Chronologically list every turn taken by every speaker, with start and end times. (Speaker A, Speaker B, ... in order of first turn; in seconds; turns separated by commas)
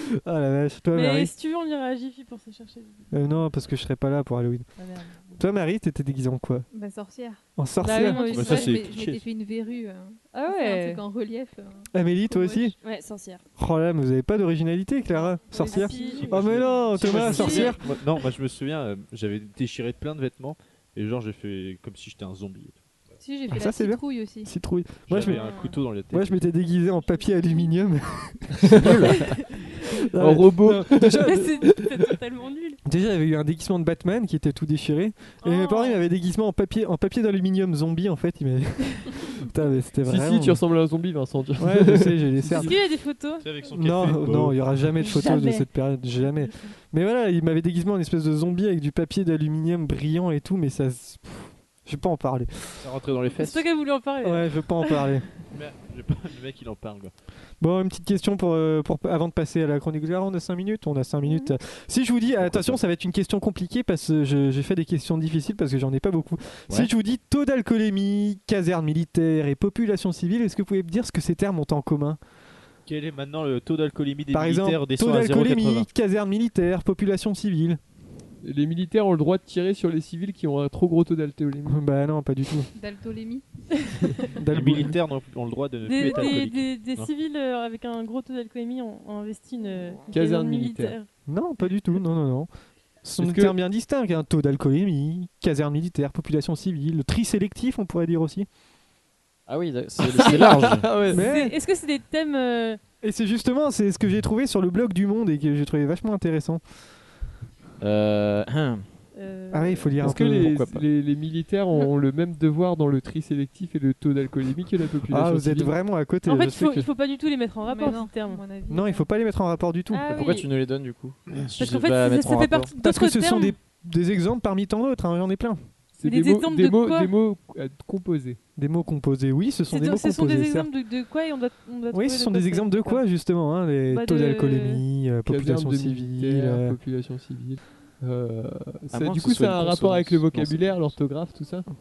Speaker A: 0.2-1.3, Speaker B: 0.9-3.1, Speaker A: 3.1-4.7, Speaker B: 4.8-5.3, Speaker A: 5.4-6.7, Speaker C: 6.7-12.7, Speaker A: 7.6-8.4, Speaker B: 7.8-8.8, Speaker D: 8.3-9.2, Speaker B: 10.3-11.0, Speaker A: 11.9-12.7, Speaker B: 12.8-13.4, Speaker A: 13.6-17.8, Speaker B: 15.5-17.8, Speaker C: 15.7-16.2, Speaker D: 16.0-22.8, Speaker C: 23.2-24.5, Speaker A: 23.5-25.4, Speaker D: 25.1-26.4, Speaker B: 25.2-25.8, Speaker A: 26.1-28.9, Speaker E: 28.6-29.2, Speaker A: 30.1-31.7, Speaker E: 30.2-31.4, Speaker B: 31.2-32.8, Speaker A: 32.8-40.6, Speaker B: 35.4-36.0, Speaker E: 40.0-42.7, Speaker A: 41.6-42.8, Speaker B: 42.5-43.5, Speaker D: 43.4-44.6, Speaker A: 43.7-52.9, Speaker C: 45.1-45.6, Speaker B: 45.2-45.5, Speaker D: 52.8-53.6, Speaker B: 53.4-55.1, Speaker A: 54.2-55.3, Speaker D: 55.5-57.1, Speaker A: 57.6-72.2, Speaker B: 61.2-61.5, Speaker F: 62.4-62.8, Speaker D: 72.8-75.9, Speaker A: 74.3-77.8, Speaker E: 78.4-81.8, Speaker A: 81.7-82.7, Speaker C: 82.7-84.3, Speaker A: 84.3-85.0, Speaker D: 84.5-87.1, Speaker B: 85.8-91.1, Speaker E: 90.1-91.0, Speaker A: 91.3-92.5, Speaker A: 93.0-98.5, Speaker E: 93.2-93.5, Speaker F: 99.5-101.0, Speaker E: 100.0-101.2, Speaker B: 101.0-102.8, Speaker A: 101.1-101.5, Speaker A: 103.0-106.6, Speaker F: 107.8-108.9, Speaker B: 109.1-109.9, Speaker A: 109.5-110.8, Speaker E: 110.0-115.7, Speaker F: 110.0-110.7, Speaker A: 115.1-116.9, Speaker B: 116.2-118.4, Speaker C: 117.6-119.1, Speaker A: 118.7-120.2, Speaker B: 119.9-120.5, Speaker F: 120.1-122.7, Speaker B: 121.6-123.5, Speaker A: 122.8-125.6, Speaker E: 126.0-128.4, Speaker B: 126.0-127.1, Speaker A: 128.6-130.7, Speaker B: 129.7-133.1, Speaker A: 131.9-136.8, Speaker B: 133.9-134.8, Speaker E: 135.2-141.7, Speaker F: 138.9-140.9